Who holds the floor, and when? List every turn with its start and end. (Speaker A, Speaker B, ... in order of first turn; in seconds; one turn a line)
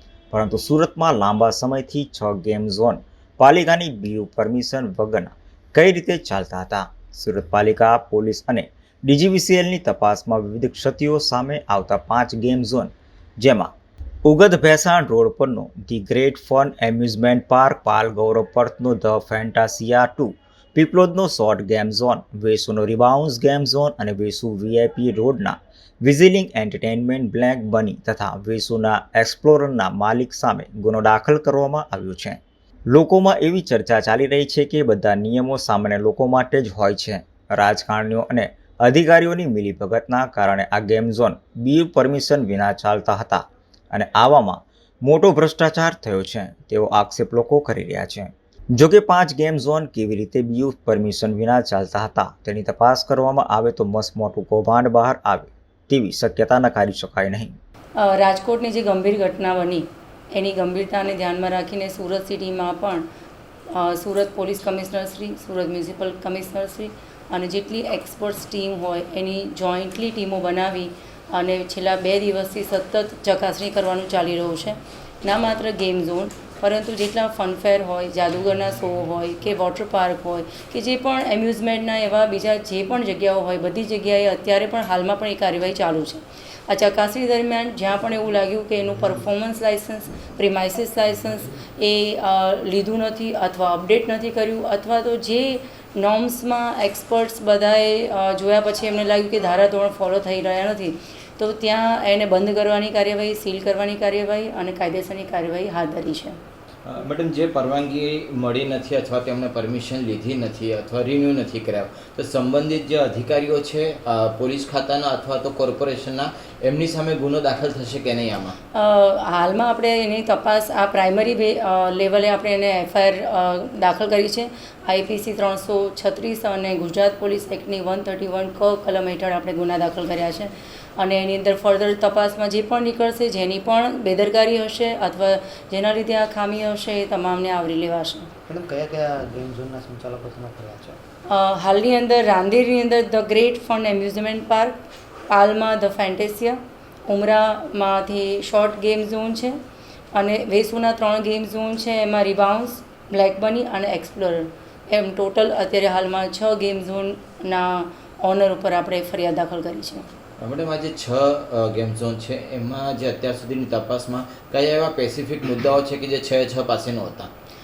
Speaker A: 0.3-13.7
Speaker A: 14.3-57.5
Speaker B: 58.0-63.1
Speaker B: 63.7-106.4
Speaker C: 106.9-118.6
Speaker B: 118.7-138.3
Speaker D: 138.5-141.0
Speaker B: 141.3-144.8
Speaker B: 145.3-149.6
Speaker B: 150.2-160.1
Speaker C: 160.4-167.3